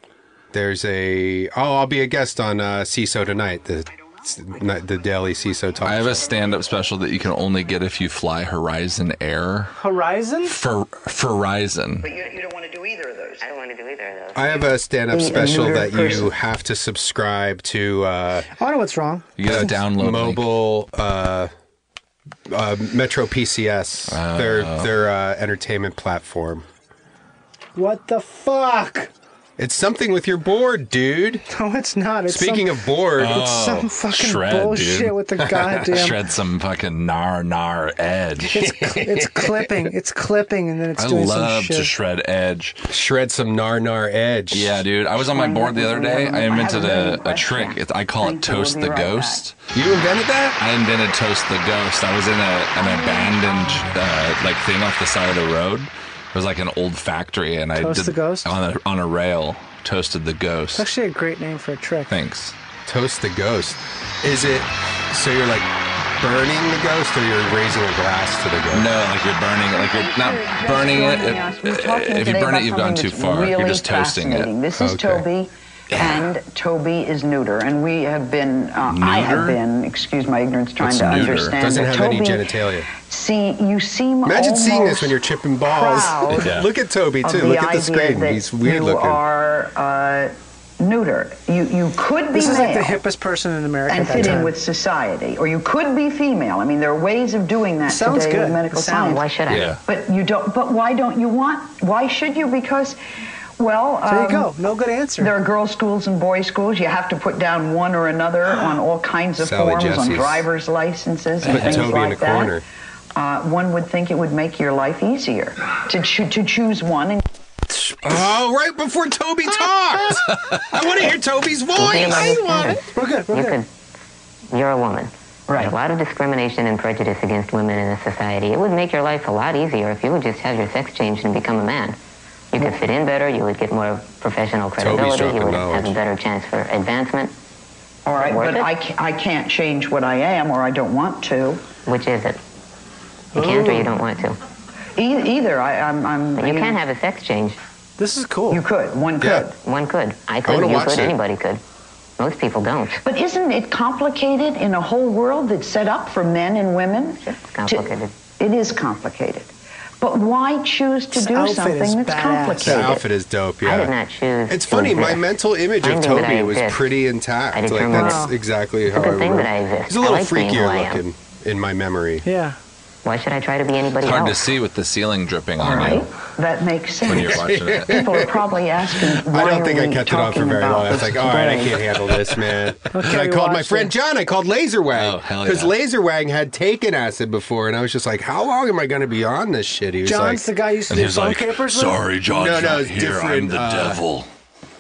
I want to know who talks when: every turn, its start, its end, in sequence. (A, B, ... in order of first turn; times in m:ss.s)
0:00.5-0:06.3 A
0:05.8-0:09.7 B
0:09.8-0:10.6 C
0:10.5-0:12.1 B
0:12.0-0:13.4 D
0:13.4-0:14.6 E
0:14.4-0:18.5 A
0:15.1-0:16.3 D
0:18.6-0:19.3 C
0:19.4-0:20.4 B
0:19.4-0:21.5 A
0:22.5-0:26.7 A
0:24.1-0:24.9 B
0:27.8-0:29.1 C
0:29.6-0:31.4 A
0:31.5-0:36.2 C
0:32.3-0:33.5 A
0:33.2-0:35.2 B
0:35.4-0:36.0 A
0:35.9-0:38.6 B
0:38.5-0:41.9 C
0:38.5-0:39.9 A
0:41.0-0:42.8 B
0:42.9-0:44.8 A
0:44.5-0:49.6 B
0:45.2-0:49.4 D
0:49.7-0:50.6 A
0:50.6-1:00.9 B
0:52.8-0:53.8 D
0:57.8-0:58.5 C
1:00.8-1:02.1 C
1:02.1-1:02.6 B
1:02.9-1:05.7 A
1:06.2-1:08.9 A
1:08.7-1:14.5 B
1:09.7-1:26.5 D
1:14.8-1:15.2 A
1:15.9-1:16.3 B
1:18.9-1:19.6 B
1:20.8-1:21.6 B
1:21.6-1:22.9 A
1:24.2-1:29.2 A
1:26.4-1:26.7 B
1:27.2-1:33.0 D
1:32.3-1:34.5 C
1:33.9-1:43.0 D
1:37.9-1:39.2 C
1:39.0-1:39.8 E
1:39.5-1:39.8 B
1:43.6-1:44.6 D
1:44.1-1:45.3 C
1:45.2-1:52.6 D
1:49.4-1:50.4 A
1:51.4-1:51.9 B
1:51.5-1:52.6 A
1:53.2-1:57.2 D
1:58.0-2:02.8 A
2:01.7-2:03.7 E
2:02.9-2:03.6 C
2:04.5-2:12.0 E
2:05.5-2:05.8 D
2:12.5-2:17.3 E
2:12.6-2:12.8 D
2:14.8-2:16.0 A
2:18.1-2:21.7 D
2:18.2-2:18.7 E
2:21.8-2:22.4 E
2:23.4-2:24.4 E
2:23.4-2:23.9 C
2:25.0-2:26.8 D
2:26.4-2:27.6 E
2:28.0-2:28.6 C
2:28.5-2:29.5 D
2:29.6-2:31.6 E
2:30.4-2:31.2 A
2:32.2-2:33.0 E
2:33.0-2:43.0 D
2:37.5-2:38.1 E
2:41.1-2:43.0 C
2:42.6-2:43.9 A
2:43.6-2:45.3 E
2:44.5-2:52.2 A
2:45.8-2:46.9 E
2:47.5-2:48.3 E
2:47.9-2:48.4 C
2:48.9-2:51.0 E
2:52.2-2:52.6 C
2:53.0-2:54.5 E
2:54.0-2:56.1 B
2:55.6-3:01.6 D
2:57.0-2:58.0 B
2:57.2-2:58.2 A
2:59.2-3:10.5 A
3:01.3-3:01.6 C
3:02.9-3:03.9 C
3:04.9-3:05.7 B
3:10.0-3:12.0 C
3:10.9-3:14.3 B
3:12.3-3:14.0 A